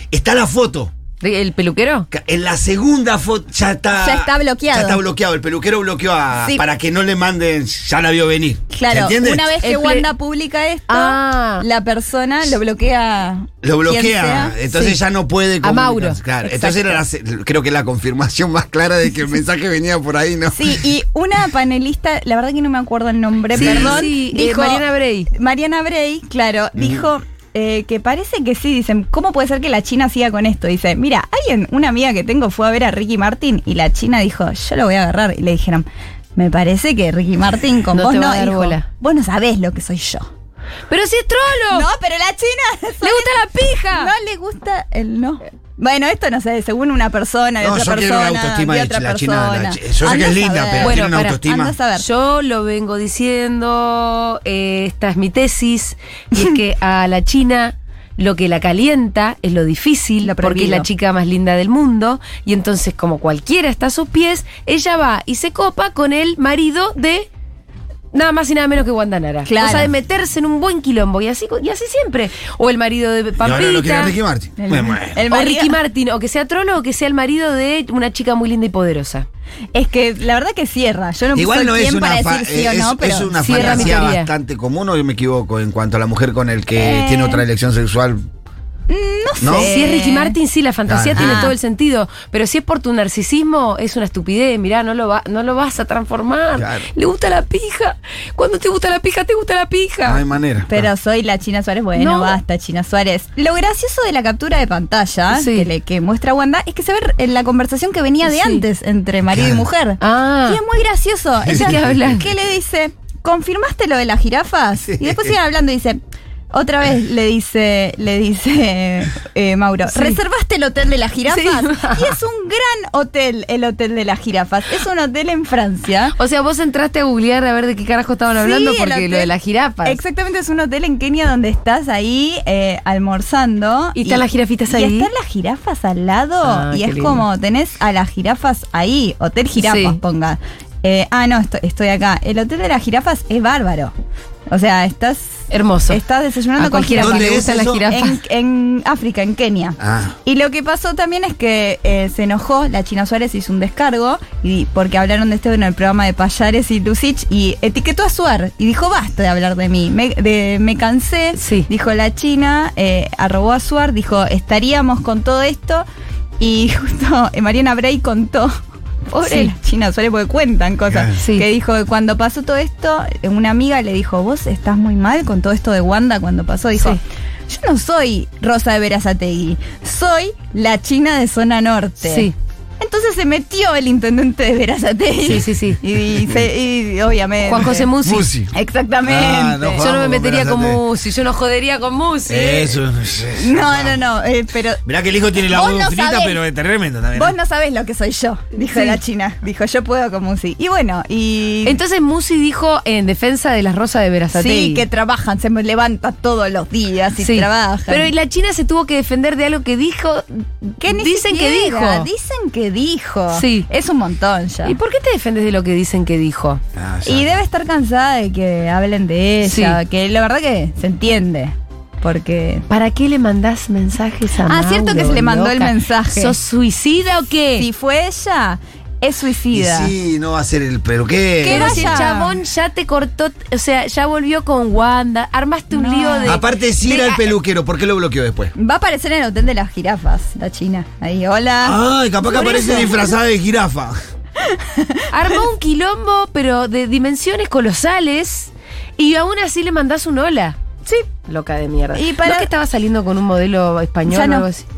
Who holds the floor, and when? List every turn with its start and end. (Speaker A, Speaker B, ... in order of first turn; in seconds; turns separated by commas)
Speaker A: 0.1-0.9, Speaker B: 1.2-2.1, Speaker A: 2.1-9.6, Speaker C: 3.9-5.0, Speaker C: 6.4-6.7, Speaker C: 8.7-14.5, Speaker B: 9.6-10.1, Speaker B: 10.9-11.6, Speaker A: 13.6-20.8, Speaker B: 14.7-15.0, Speaker B: 15.6-16.2, Speaker C: 16.4-17.0, Speaker C: 20.5-40.3, Speaker A: 23.5-24.0, Speaker B: 23.5-25.3, Speaker B: 37.9-38.9, Speaker B: 40.9-41.9, Speaker C: 41.7-43.4, Speaker B: 43.0-44.1, Speaker C: 43.9-52.0, Speaker A: 47.6-51.7, Speaker B: 50.8-51.4, Speaker B: 52.0-67.3, Speaker C: 60.2-60.9, Speaker B: 68.1-74.1, Speaker C: 69.5-69.9, Speaker A: 73.4-75.2, Speaker C: 74.6-75.8, Speaker B: 75.3-79.2, Speaker C: 79.7-84.1, Speaker A: 81.3-88.2, Speaker B: 83.4-84.3, Speaker C: 86.8-87.5, Speaker C: 88.9-90.3, Speaker A: 89.4-89.7, Speaker B: 89.6-100.2, Speaker A: 90.9-91.5, Speaker C: 91.2-91.5, Speaker A: 96.5-96.9, Speaker A: 100.0-100.9, Speaker C: 100.7-116.0, Speaker B: 102.0-102.4, Speaker B: 105.3-105.7, Speaker B: 108.2-108.6, Speaker A: 109.3-109.7, Speaker B: 110.0-110.6, Speaker A: 111.5-111.7, Speaker B: 111.5-112.3, Speaker C: 116.5-126.1, Speaker B: 119.9-120.2, Speaker B: 121.2-122.2, Speaker B: 126.2-130.0, Speaker C: 128.3-129.3, Speaker C: 129.8-143.9, Speaker B: 133.9-135.1, Speaker B: 136.4-137.2, Speaker B: 139.6-140.0, Speaker C: 144.5-165.8, Speaker B: 145.5-146.0, Speaker B: 146.6-148.2, Speaker A: 147.0-147.7, Speaker A: 149.8-150.1, Speaker B: 161.3-161.7, Speaker C: 166.4-168.5, Speaker C: 169.1-187.9, Speaker B: 169.2-169.5, Speaker B: 171.2-171.5, Speaker B: 182.0-182.3, Speaker B: 185.2-185.8, Speaker A: 186.0-186.5, Speaker B: 187.4-188.3, Speaker A: 188.0-188.5, Speaker C: 188.5-189.8, Speaker A: 189.0-190.8, Speaker B: 189.7-192.8, Speaker A: 192.2-194.1, Speaker C: 193.3-194.8, Speaker A: 194.8-197.3, Speaker C: 195.5-196.4, Speaker C: 197.1-201.8, Speaker B: 198.6-199.0, Speaker B: 201.6-204.8, Speaker C: 204.3-208.1, Speaker B: 207.2-212.1, Speaker C: 210.8-214.8, Speaker B: 213.3-213.7, Speaker B: 214.6-216.6, Speaker A: 216.7-217.4, Speaker C: 217.0-222.7, Speaker B: 219.4-219.8, Speaker B: 222.7-227.7, Speaker C: 224.4-226.4, Speaker C: 227.6-229.9, Speaker A: 229.5-232.1, Speaker C: 231.4-232.3, Speaker B: 231.5-237.2, Speaker C: 235.7-236.4, Speaker A: 236.2-238.5, Speaker C: 238.5-242.9, Speaker A: 241.6-244.0, Speaker B: 242.3-243.1, Speaker C: 244.4-245.0, Speaker B: 245.1-254.7, Speaker C: 251.9-252.5, Speaker C: 254.1-254.5